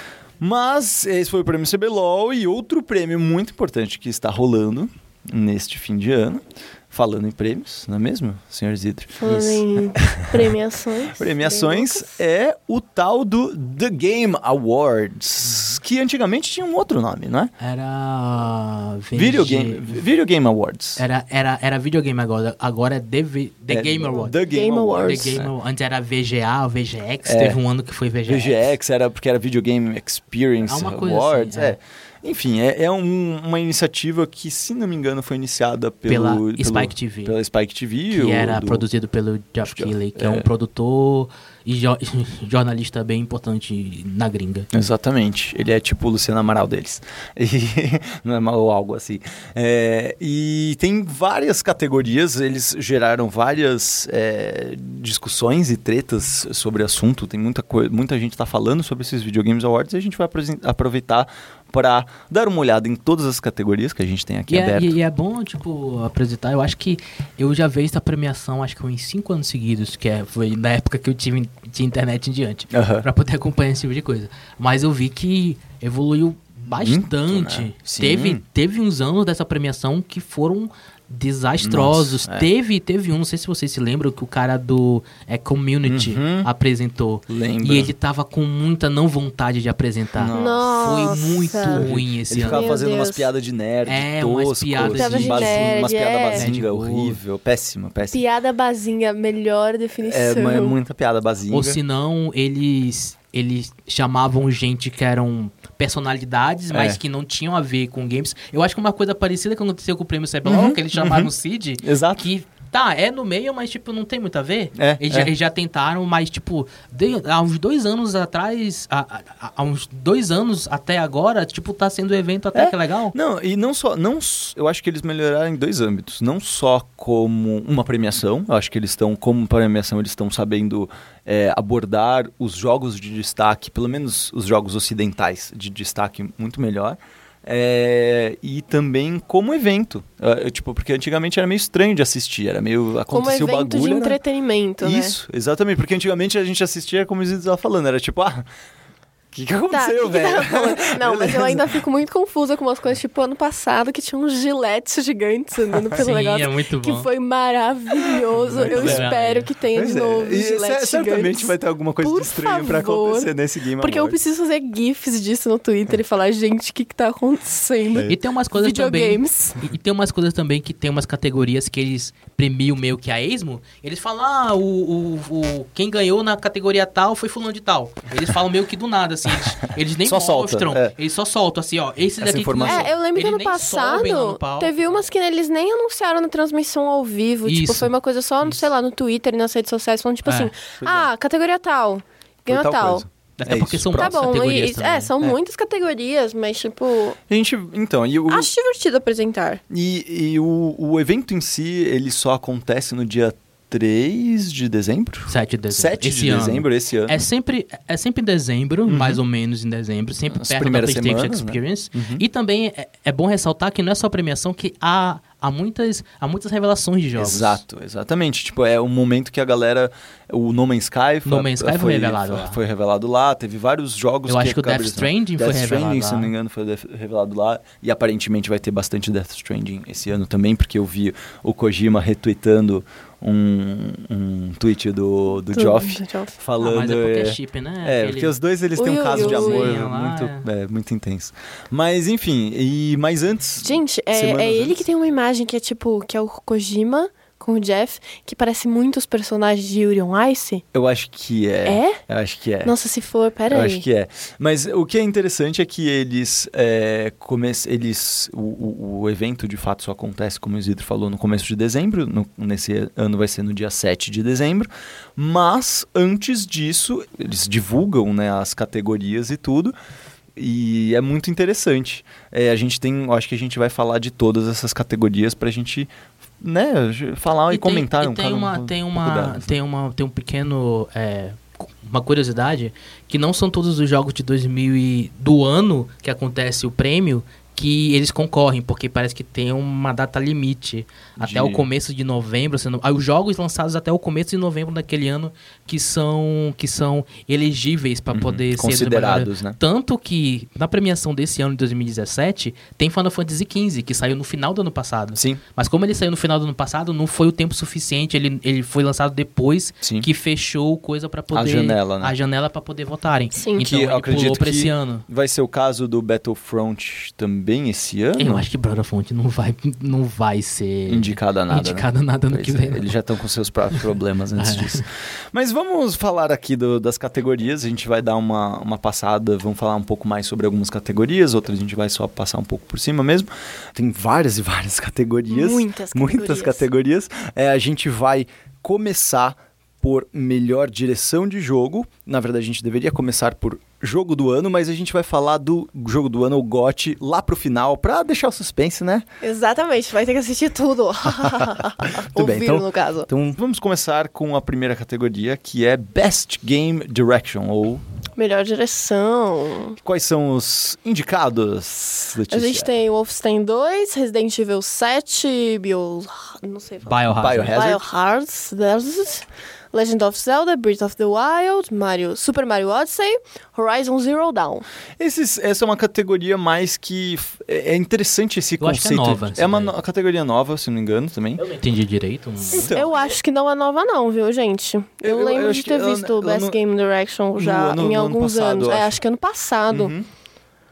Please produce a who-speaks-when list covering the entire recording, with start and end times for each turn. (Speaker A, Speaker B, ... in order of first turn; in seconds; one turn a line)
Speaker A: 0.4-10.5
Speaker B: 9.2-12.2
Speaker C: 9.3-9.6
Speaker A: 11.2-17.5
Speaker C: 17.6-20.0
Speaker A: 19.1-21.0
Speaker C: 21.0-24.4
Speaker A: 23.7-25.5
Speaker B: 24.5-25.4
Speaker C: 24.9-28.7
Speaker A: 27.2-27.6
Speaker A: 28.2-38.8
Speaker C: 30.6-31.8
Speaker C: 36.1-37.3
Speaker C: 38.1-44.7
Speaker A: 39.6-40.5
Speaker A: 44.7-65.0
Speaker C: 64.5-92.7
Speaker A: 72.7-73.1
Speaker A: 76.7-78.4
Speaker A: 81.6-82.5
Speaker A: 85.8-86.5
Speaker A: 87.3-87.9
Speaker A: 90.2-91.0
Speaker B: 90.3-91.9
Speaker A: 91.7-98.2
Speaker B: 92.4-93.3
Speaker C: 93.8-97.2
Speaker B: 94.8-96.5
Speaker B: 98.1-100.8
Speaker A: 100.0-101.8
Speaker C: 101.5-123.1
Speaker A: 106.7-107.0
Speaker A: 110.4-112.3
Speaker A: 114.7-115.3
Speaker A: 122.5-144.2
Speaker B: 143.1-145.2
Speaker A: 144.8-148.5
Speaker A: 149.3-151.7
Speaker B: 149.7-169.6
Speaker A: 155.8-156.0
Speaker C: 155.9-157.1
Speaker A: 158.0-159.1
Speaker C: 158.4-159.5
Speaker A: 159.7-164.2
Speaker A: 167.9-168.2
Speaker C: 168.1-185.0
Speaker A: 180.0-180.9
Speaker A: 182.2-182.9
Speaker B: 182.6-193.1
Speaker C: 187.4-187.9
Speaker C: 190.2-190.5
Speaker A: 190.8-191.1
Speaker A: 192.5-194.4
Speaker C: 193.4-195.1
Speaker B: 193.9-197.2
Speaker A: 197.3-198.5
Speaker B: 198.3-199.6
Speaker A: 199.7-207.2
Speaker C: 205.3-217.6
Speaker A: 208.9-209.2
Speaker A: 210.3-212.2
Speaker A: 217.2-244.8
Speaker C: 221.2-222.6
Speaker C: 224.3-226.3
Speaker B: 235.5-236.3
Speaker C: 236.6-238.3
Speaker B: 238.8-239.7
Speaker C: 239.1-240.4
Speaker B: 243.6-250.6
Speaker A: 250.7-252.7
Speaker B: 251.6-252.0
Speaker B: 252.6-253.8
Speaker A: 253.5-269.7
Speaker A: 270.4-279.5
Speaker C: 277.5-315.0
Speaker A: 291.2-291.7
Speaker A: 298.1-299.6
Speaker A: 305.1-305.4
Speaker A: 309.8-310.1
Speaker A: 311.3-312.1
Speaker B: 313.4-313.6
Speaker A: 313.6-318.4
Speaker C: 318.2-322.9
Speaker A: 320.9-349.1
Speaker C: 324.4-324.9
Speaker B: 335.3-336.6
Speaker B: 349.2-353.1
Speaker A: 351.1-357.8
Speaker B: 358.2-359.8
Speaker A: 359.8-362.7
Speaker B: 362.3-374.6
Speaker C: 366.9-367.6
Speaker A: 367.2-367.8
Speaker A: 375.0-381.4
Speaker C: 378.6-379.7
Speaker C: 381.4-382.8
Speaker A: 382.5-382.9
Speaker B: 382.5-389.9
Speaker A: 385.0-386.6
Speaker A: 387.4-389.0
Speaker A: 389.7-390.1